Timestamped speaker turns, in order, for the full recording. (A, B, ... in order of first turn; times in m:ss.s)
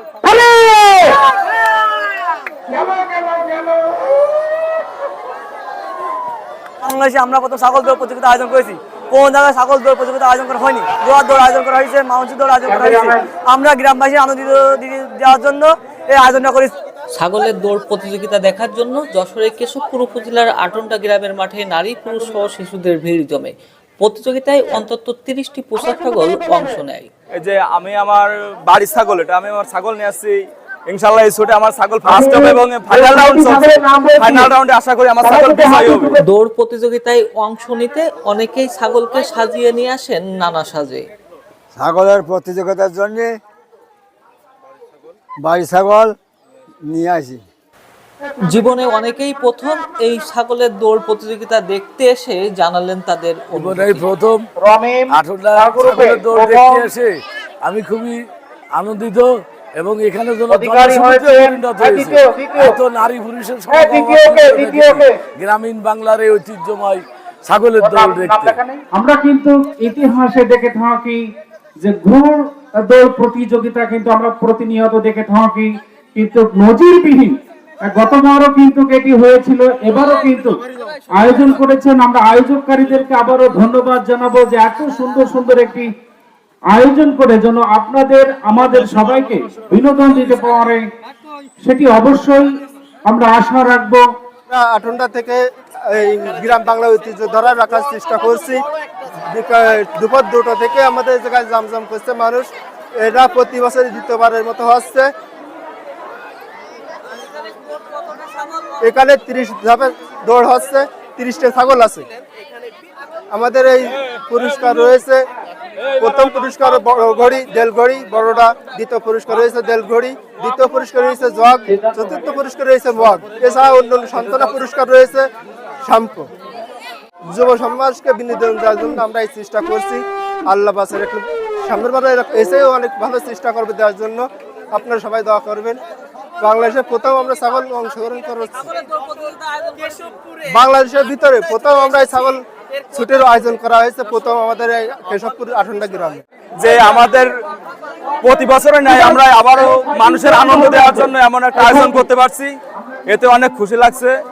0:06.8-0:16.7 A
0:12.6-0:13.3 B
0:17.1-0:27.1 C
0:27.3-0:36.2 D
0:36.2-0:41.1 C
0:41.7-0:43.3 E
0:45.4-0:46.1 E
0:46.8-0:47.4 E
0:48.4-0:54.1 C
0:53.5-0:54.4 F
0:54.6-0:56.9 B
0:55.1-1:08.6 F
1:00.5-1:02.7 B
1:03.6-1:05.1 B
1:07.8-1:11.2 B
1:11.8-1:20.6 B
1:21.1-1:25.9 B
1:26.7-1:30.8 B
1:31.6-1:34.0 B
1:34.5-1:38.6 G
1:39.2-1:45.1 G
1:48.8-1:52.1 G
1:53.3-1:55.3 G
1:56.0-2:05.3 G
2:01.7-2:02.2 B
2:05.8-2:06.3 G
2:07.3-2:15.8 G
2:16.4-2:18.9 G
2:20.4-2:26.2 G
2:26.6-2:27.3 D
2:28.2-2:32.5 D
2:33.1-2:34.1 D